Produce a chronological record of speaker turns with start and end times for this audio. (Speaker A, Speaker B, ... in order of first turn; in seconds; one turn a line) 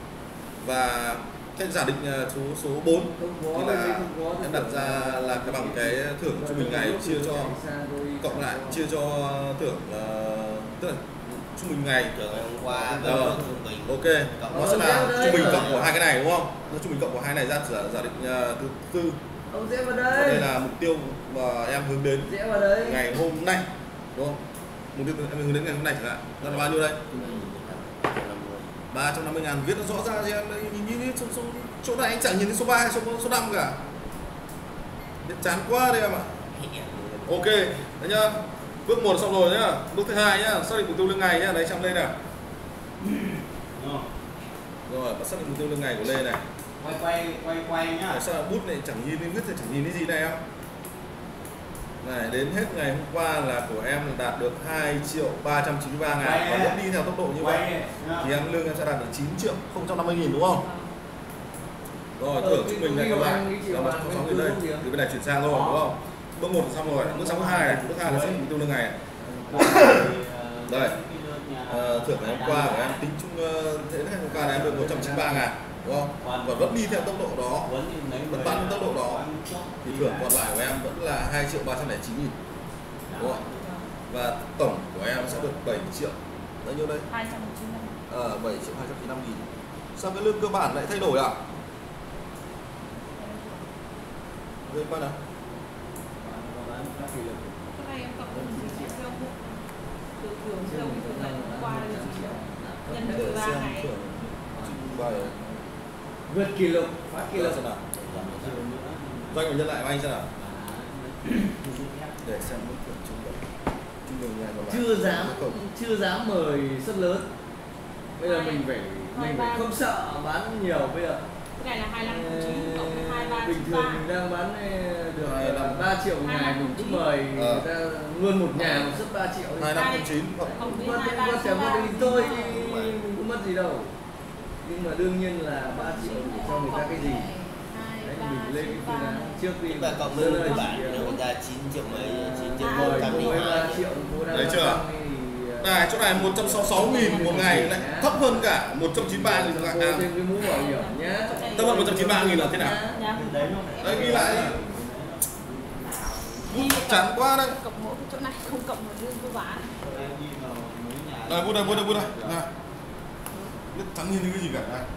Speaker A: 0.6-7.5
Speaker B: 3.1-8.8
Speaker A: 8.2-12.1
Speaker C: 12.1-16.0
Speaker B: 12.7-13.6
Speaker A: 13.0-19.2
Speaker B: 14.5-15.9
Speaker B: 19.5-20.5
Speaker A: 20.1-24.4
Speaker B: 22.2-23.0
Speaker A: 24.9-27.0
Speaker C: 27.1-28.8
Speaker A: 28.9-33.8
Speaker A: 35.2-36.5
Speaker C: 36.5-37.4
Speaker A: 37.2-42.1
Speaker D: 43.0-44.1
Speaker A: 44.9-46.4
Speaker D: 46.8-48.2
Speaker A: 48.1-50.4
Speaker A: 52.0-57.7
Speaker D: 56.2-56.8
Speaker D: 57.4-58.3
Speaker A: 58.2-60.7
Speaker E: 60.5-61.0
Speaker A: 62.2-69.0
Speaker B: 62.3-64.9
Speaker D: 65.5-65.9
Speaker D: 66.8-68.4
Speaker B: 69.2-69.9
Speaker D: 69.5-73.0
Speaker A: 69.6-70.1
Speaker A: 70.7-71.0
Speaker A: 71.7-77.7
Speaker B: 74.3-75.5
Speaker D: 76.1-80.3
Speaker A: 78.2-79.2
Speaker A: 79.8-82.3
Speaker D: 83.1-83.6
Speaker E: 83.3-83.9
Speaker A: 84.1-87.1
Speaker E: 87.1-88.0
Speaker A: 88.1-91.4
Speaker E: 93.1-93.7
Speaker A: 94.7-95.2
Speaker B: 96.2-97.7
Speaker E: 97.7-99.6
Speaker B: 98.3-99.0
Speaker E: 100.2-104.3
Speaker B: 100.6-103.4
Speaker A: 103.1-105.3
Speaker B: 104.5-105.6
Speaker B: 106.3-107.6
Speaker A: 107.3-108.6
Speaker D: 108.0-109.5
Speaker A: 109.3-110.3
Speaker D: 110.3-112.5
Speaker A: 112.2-113.4
Speaker A: 114.0-115.6
Speaker B: 114.7-117.3
Speaker B: 118.2-121.2
Speaker E: 118.2-119.7
Speaker E: 121.6-124.0
Speaker B: 122.0-133.9
Speaker A: 125.2-125.9
Speaker E: 126.2-127.1
Speaker A: 127.3-127.7
Speaker A: 129.6-130.8
Speaker E: 129.7-132.8
Speaker C: 132.1-132.9
Speaker B: 134.6-137.3
Speaker E: 135.7-139.4
Speaker B: 138.0-141.1
Speaker C: 139.7-144.0
Speaker E: 140.2-141.2
Speaker B: 141.8-148.2
Speaker E: 142.6-143.6
Speaker A: 144.3-144.8
Speaker A: 145.6-150.1
Speaker B: 148.9-153.0
Speaker E: 150.4-154.5
Speaker A: 151.5-152.8
Speaker D: 153.1-156.6
Speaker A: 153.8-154.6
Speaker B: 153.9-154.2
Speaker A: 156.5-157.6
Speaker E: 156.5-159.7
Speaker D: 159.8-162.4
Speaker A: 161.3-162.5
Speaker E: 163.3-163.6
Speaker A: 163.7-164.9